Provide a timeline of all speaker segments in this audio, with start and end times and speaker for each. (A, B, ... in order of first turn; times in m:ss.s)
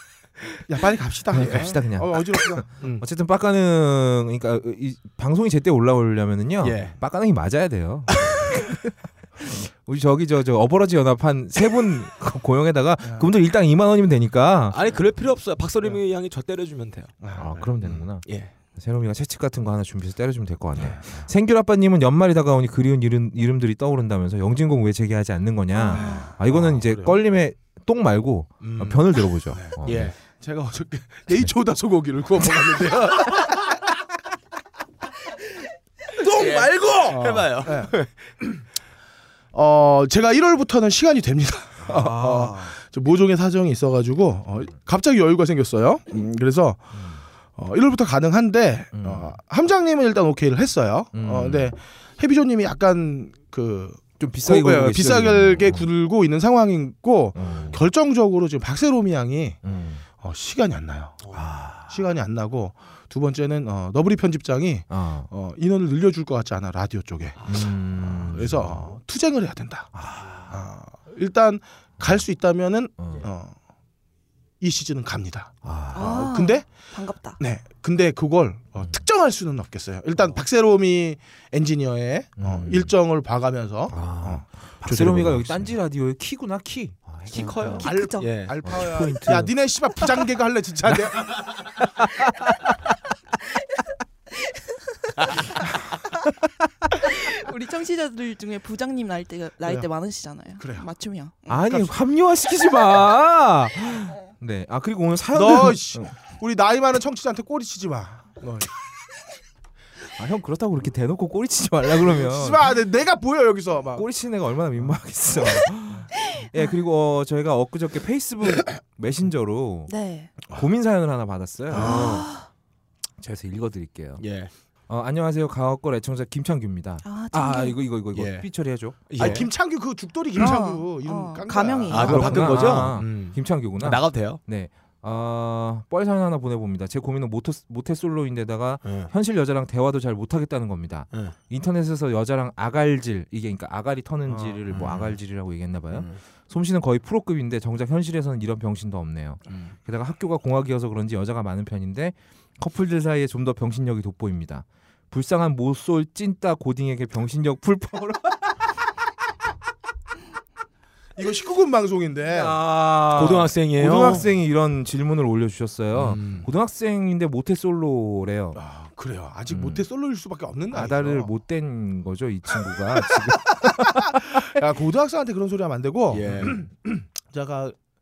0:00.7-0:02.7 A
0:01.3-0:14.8 B
0:01.3-0:01.7 C
0:06.6-0:07.0 C
0:08.2-0:08.4 C
0:14.7-0:17.1 C
0:17.2-0:18.0 A
0:17.3-0:30.1 B
0:18.2-0:18.5 C
0:20.8-0:21.2 A
0:25.7-0:26.3 D
0:25.9-0:27.2 A
0:28.6-0:29.0 C
0:29.5-0:33.8 A
0:29.8-0:30.2 C
0:36.2-0:37.9 A
0:36.2-0:38.1 C
0:39.5-0:46.9 A
0:41.8-0:42.7 B
0:46.9-0:47.2 B
0:47.6-0:59.6 A
0:48.9-0:49.4 B
0:51.1-0:51.7 B
0:54.2-0:55.9 B
0:57.3-0:57.8 B
0:59.6-1:00.0 B
1:00.2-1:01.2 A
1:01.3-1:02.0 B
1:01.9-1:09.9 A
1:04.9-1:05.3 B
1:07.5-1:08.9 B
1:09.9-1:10.6 B
1:10.5-1:13.5 A
1:13.0-1:13.2 B
1:14.6-1:16.6 A
1:15.6-1:16.3 B
1:15.9-1:17.4 D
1:17.4-1:25.7 A
1:22.4-1:22.9 B
1:23.9-1:27.9 B
1:27.3-1:28.6 C
1:27.7-1:31.4 A
1:27.7-1:28.3 D
1:28.6-1:29.5 B
1:32.0-1:32.7 B
1:37.0-1:41.6 D
1:40.6-1:40.9 A
1:41.5-1:46.1 B
1:45.3-1:48.7 A
1:50.2-1:52.7 B
1:52.0-1:54.0 A
1:53.9-1:59.9 B
1:56.4-1:56.6 D
1:59.9-2:00.3 D
2:00.5-2:02.3 B
2:01.7-2:02.5 D
2:01.8-2:02.1 C
2:03.2-2:04.2 B
2:04.2-2:04.5 C
2:04.9-2:09.4 B
2:07.0-2:07.8 D
2:08.1-2:08.5 C
2:09.1-2:09.5 C
2:09.2-2:12.9 A
2:10.4-2:12.4 D
2:11.9-2:14.4 C
2:11.9-2:38.5 B
2:18.8-2:19.1 C
2:24.3-2:24.6 A
2:24.7-2:25.2 C
2:25.9-2:26.2 C
2:41.2-2:42.6 A
2:42.3-2:48.6 B
2:43.0-2:44.2 C
2:45.9-2:46.5 C
2:48.5-2:51.3 A
2:49.5-2:49.8 B
2:50.7-2:54.5 B
2:53.1-2:57.8 A
2:56.1-2:56.6 C